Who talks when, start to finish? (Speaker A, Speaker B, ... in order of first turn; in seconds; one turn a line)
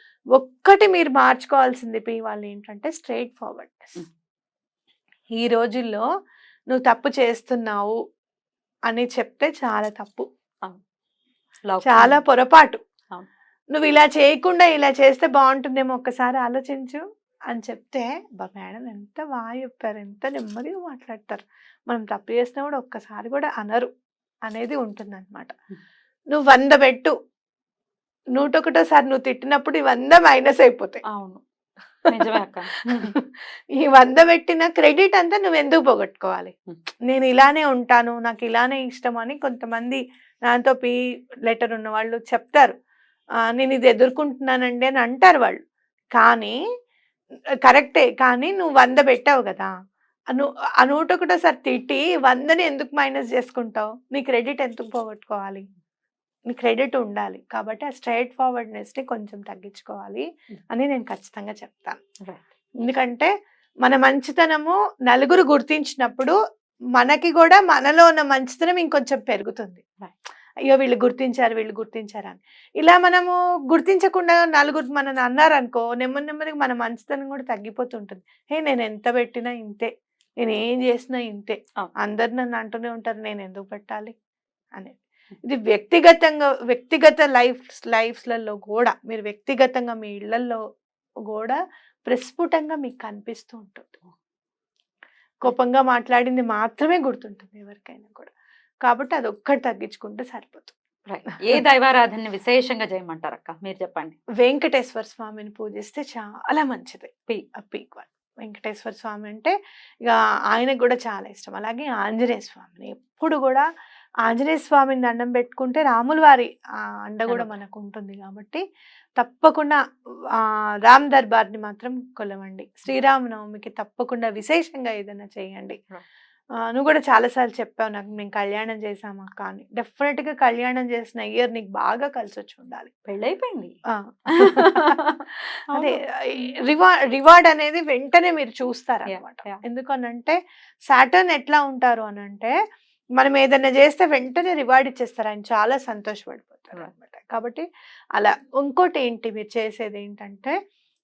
Speaker A: 0.3-3.9
Speaker A: 5.3-6.0
Speaker A: 6.7-8.0
Speaker A: 8.9-10.2
Speaker B: 11.6-12.2
Speaker A: 11.8-12.8
Speaker A: 13.7-23.9
Speaker A: 24.5-25.5
Speaker A: 26.3-27.1
Speaker A: 28.3-31.0
Speaker B: 31.1-31.4
Speaker B: 32.1-33.1
Speaker A: 33.0-33.2
Speaker A: 33.8-36.5
Speaker A: 37.1-42.7
Speaker A: 43.5-45.6
Speaker A: 46.1-46.6
Speaker A: 47.6-49.7
Speaker A: 50.3-55.6
Speaker A: 56.5-62.0
Speaker A: 62.8-63.3
Speaker A: 63.8-66.4
Speaker A: 67.0-69.8
Speaker A: 70.7-79.9
Speaker A: 80.4-84.1
Speaker A: 84.8-90.6
Speaker A: 91.3-94.0
Speaker A: 95.4-98.3
Speaker A: 98.8-100.7
Speaker B: 101.0-104.2
Speaker A: 104.4-113.7
Speaker A: 114.2-118.6
Speaker B: 117.3-117.5
Speaker A: 119.2-119.8
Speaker A: 120.3-125.8
Speaker A: 126.6-132.9
Speaker B: 133.1-133.7
Speaker A: 133.9-134.9
Speaker B: 134.4-136.5
Speaker A: 135.7-140.4
Speaker B: 139.1-139.6
Speaker A: 140.9-142.5
Speaker A: 143.2-150.5